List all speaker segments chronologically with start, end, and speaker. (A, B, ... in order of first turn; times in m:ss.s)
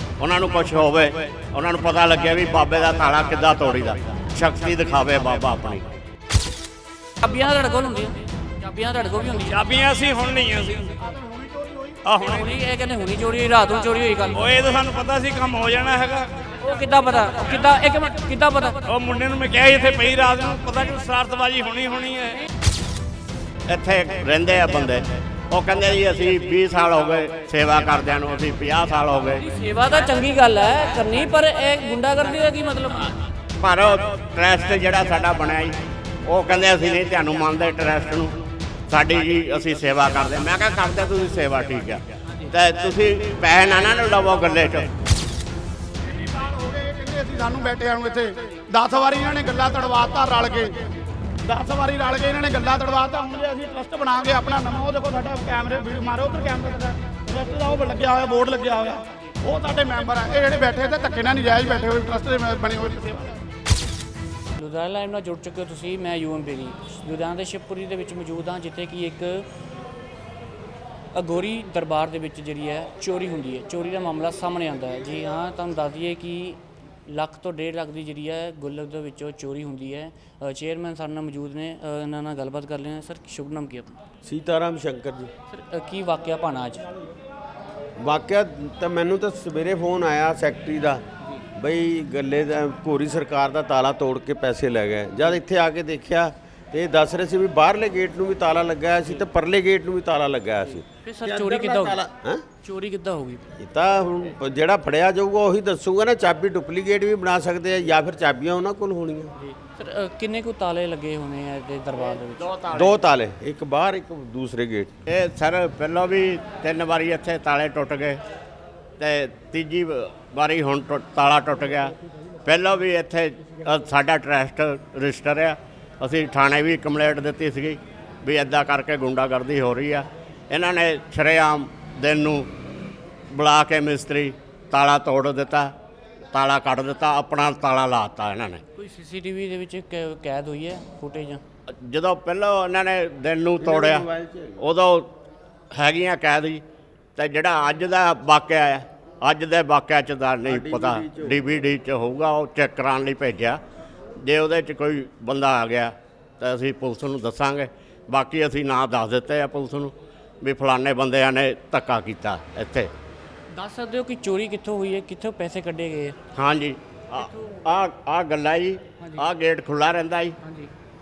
0:00.2-0:05.9 A
0:07.2-0:09.6 B
0:09.5-0:10.9 C
0:11.0-0:12.0 D
0:12.0-0:12.5 C
0:12.2-0:14.4 B
0:14.3-0:16.4 C
0:16.6-0:18.8 B
0:18.8-0:22.4 C
0:23.7-0:29.5 A
0:29.4-0:33.2 B
0:33.6-0:38.4 A
0:38.9-0:44.9 A
0:42.3-0:42.5 B
0:46.0-0:50.9 D
0:51.4-1:03.4 D
1:04.6-1:09.5 B
1:11.1-1:24.0 B
1:24.2-1:25.3 E
1:25.5-1:26.8 B
1:28.0-1:31.0 E
1:31.6-1:42.4 E
1:40.6-1:42.0 B
1:42.6-1:43.5 B
1:43.6-1:49.3 E
1:49.4-1:52.5 B
1:52.4-1:53.0 A
1:52.7-1:54.9 E
1:55.1-1:58.2 A
1:59.0-2:01.9 A
2:02.4-2:12.5 A
2:13.3-2:15.7 A
2:16.3-2:18.6 A
2:18.8-2:21.4 B
2:21.7-2:25.1 A
2:23.6-2:24.6 E
2:25.7-2:26.6 A
2:27.2-2:33.6 A
2:30.4-2:31.3 E
2:34.2-2:42.9 A
2:43.5-2:46.2 B
2:46.4-2:50.4 A
2:47.2-2:47.5 B
2:49.0-2:49.3 B
2:50.4-2:50.7 B